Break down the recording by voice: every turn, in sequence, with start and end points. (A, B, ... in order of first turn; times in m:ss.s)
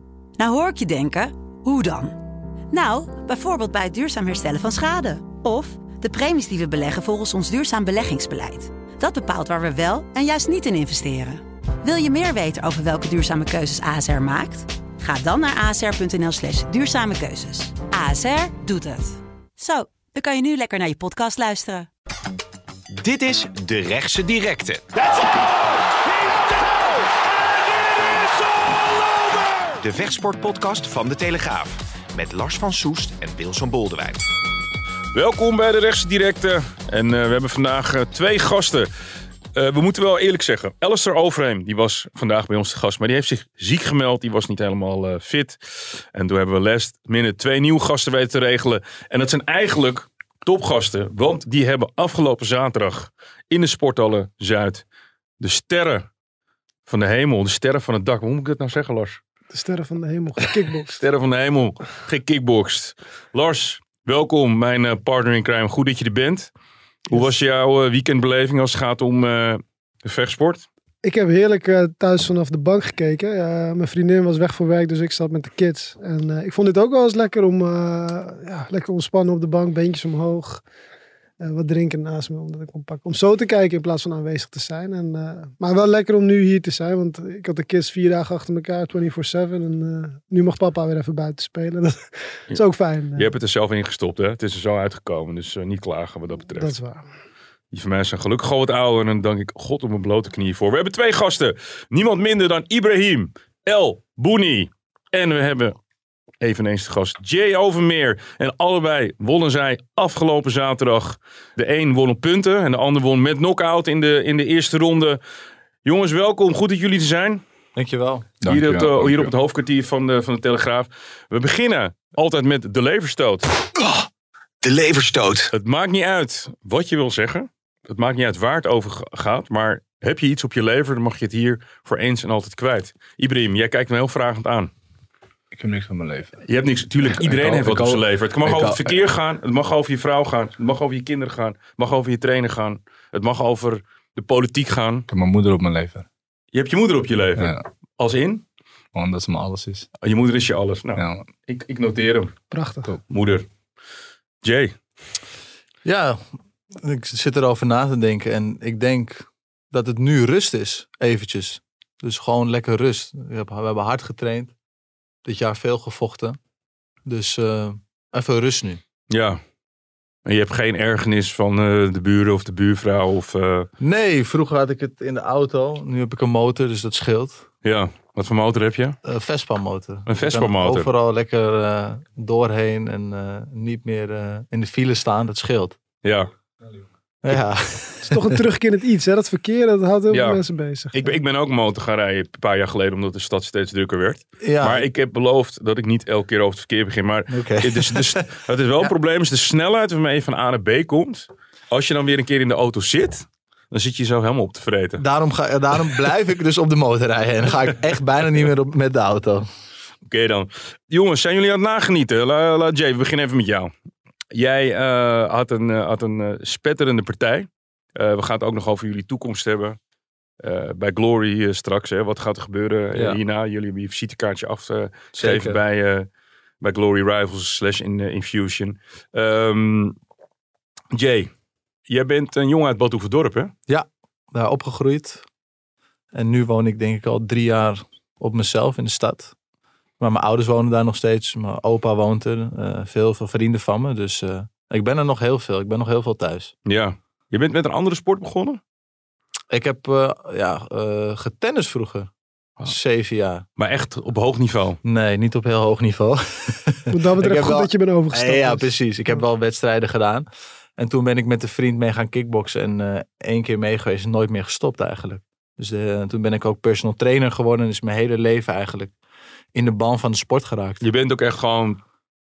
0:00.4-0:02.2 A
0:02.7-0:21.9 A
0:23.0-0:24.9 B
0:29.8-0:34.3 B
0:35.1-0:38.9 C
0:39.5-0:54.8 C
0:55.4-0:56.0 C
0:56.9-0:59.2 C
0:59.5-1:01.0 D
1:01.0-1:06.5 C
1:07.1-1:10.6 C
1:11.0-1:20.6 D
1:21.4-1:33.3 D
1:33.2-1:36.7 C
1:36.5-1:37.0 D
1:37.7-1:45.8 C
1:46.4-1:55.2 C
1:55.8-1:57.4 C
1:57.8-1:58.3 E
1:58.4-1:59.3 F
1:58.4-2:03.5 C
2:03.8-2:04.1 B
2:04.6-2:05.5 B
2:05.5-2:14.7 C
2:15.5-2:16.4 F
2:16.4-2:25.0 C
2:17.0-2:19.0 F
2:25.1-2:26.1 F
2:26.5-2:28.4 C
2:27.4-2:27.6 F
2:28.9-2:29.9 F
2:30.0-2:32.3 C
2:30.9-2:31.3 F
2:32.5-2:32.9 D
2:33.1-2:33.4 C
2:34.4-2:34.7 C
2:35.8-2:36.2 E
2:36.7-2:44.5 E
2:45.2-2:46.4 E
2:47.0-2:48.8 E
2:49.1-2:49.4 C
2:50.2-2:53.7 C
2:53.8-2:57.4 E
2:57.6-2:59.0 C
2:59.0-3:05.8 E
3:00.1-3:00.9 C
3:06.0-3:06.3 C
3:07.2-3:08.3 E
3:08.0-3:11.2 D
3:10.1-3:10.4 C
3:10.9-3:25.0 C
3:14.4-3:14.9 E
3:17.3-3:18.2 E
3:25.0-3:29.5 E
3:30.0-3:33.7 C
3:34.3-3:39.8 C
3:40.4-3:46.1 C
3:45.2-3:45.6 E
3:46.6-3:50.0 C
3:50.9-3:51.3 C
3:51.9-3:53.5 C
3:53.7-3:55.2 E
3:56.1-3:59.3 E
4:00.0-4:06.5 E
4:06.6-4:08.6 C
4:09.5-4:12.1 E
4:12.6-4:13.4 E
4:13.6-4:14.8 C
4:14.8-4:28.9 E
4:16.9-4:19.2 D
4:29.5-4:30.9 E
4:30.8-4:31.8 C